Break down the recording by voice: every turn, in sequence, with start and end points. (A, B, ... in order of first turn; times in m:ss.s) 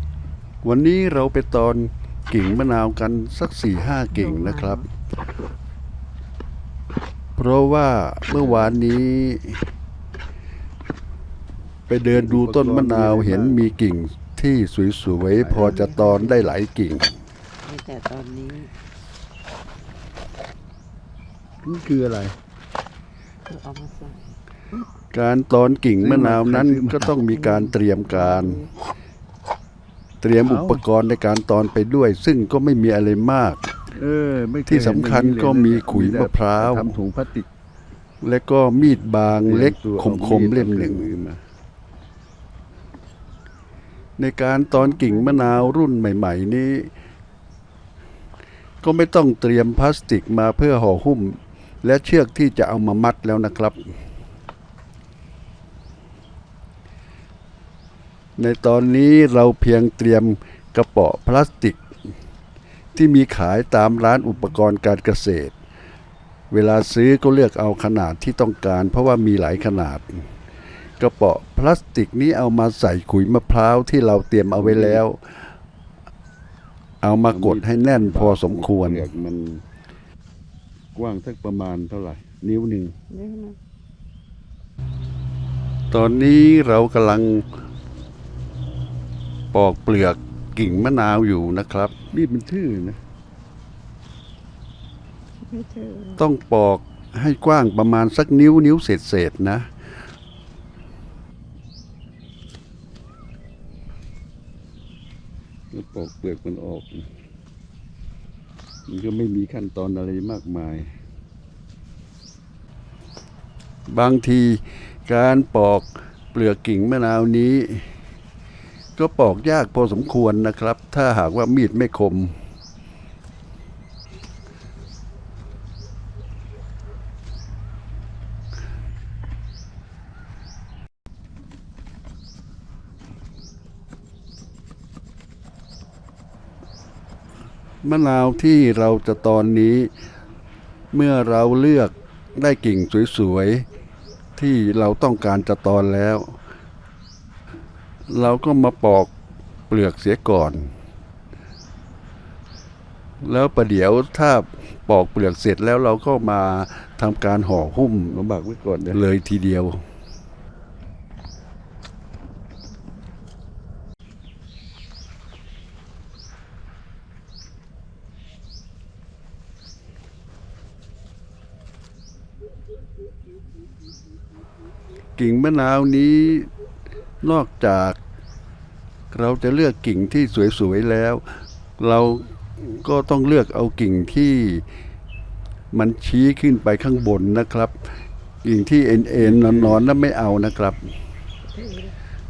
0:00.6-0:04.9 A
0:04.1-0:04.8 B
0:07.4-0:09.6 A
0:08.3-0:08.8 C
0:11.9-0:17.2 A
0:12.1-0:13.7 C
0:15.3-0:15.9 C
0:15.5-0:16.6 B
0:17.6-0:18.7 B
0:21.6-0:22.3 C
0:23.4-0:24.8 B
0:25.1-0:28.7 A
0:26.0-0:27.7 C
0:27.3-0:28.7 B
0:30.2-0:33.6 A
0:30.4-0:30.8 C
0:33.9-0:37.5 C
0:34.7-0:37.0 A
0:38.2-0:41.2 A
0:38.8-0:41.4 C
0:44.2-0:46.9 A
0:44.8-0:45.8 B
0:48.8-0:53.9 A
0:58.4-1:01.8 A
1:02.9-1:05.5 A
1:06.5-1:10.3 A
1:11.0-1:15.5 A
1:14.6-1:15.0 C
1:17.0-1:19.1 A
1:17.3-1:19.6 C
1:20.9-1:22.9 C
1:23.1-1:23.6 B
1:25.9-1:27.5 A
1:29.5-1:32.0 A
1:32.1-1:33.0 C
1:35.4-1:36.2 B
1:36.2-1:39.7 A
1:45.7-1:47.1 C
1:48.9-1:50.9 C
1:53.9-1:57.9 A
1:59.0-2:02.4 A
2:17.8-2:19.9 A
2:20.9-2:23.6 A
2:24.4-2:26.4 A
2:28.1-2:29.1 A
2:29.7-2:30.7 A
2:33.2-2:38.2 A
2:38.1-2:39.0 C
2:38.9-2:39.8 A
2:55.2-2:56.5 A
2:57.2-2:58.0 A
2:59.1-3:04.6 A
3:05.7-3:10.8 A
3:09.1-3:09.9 C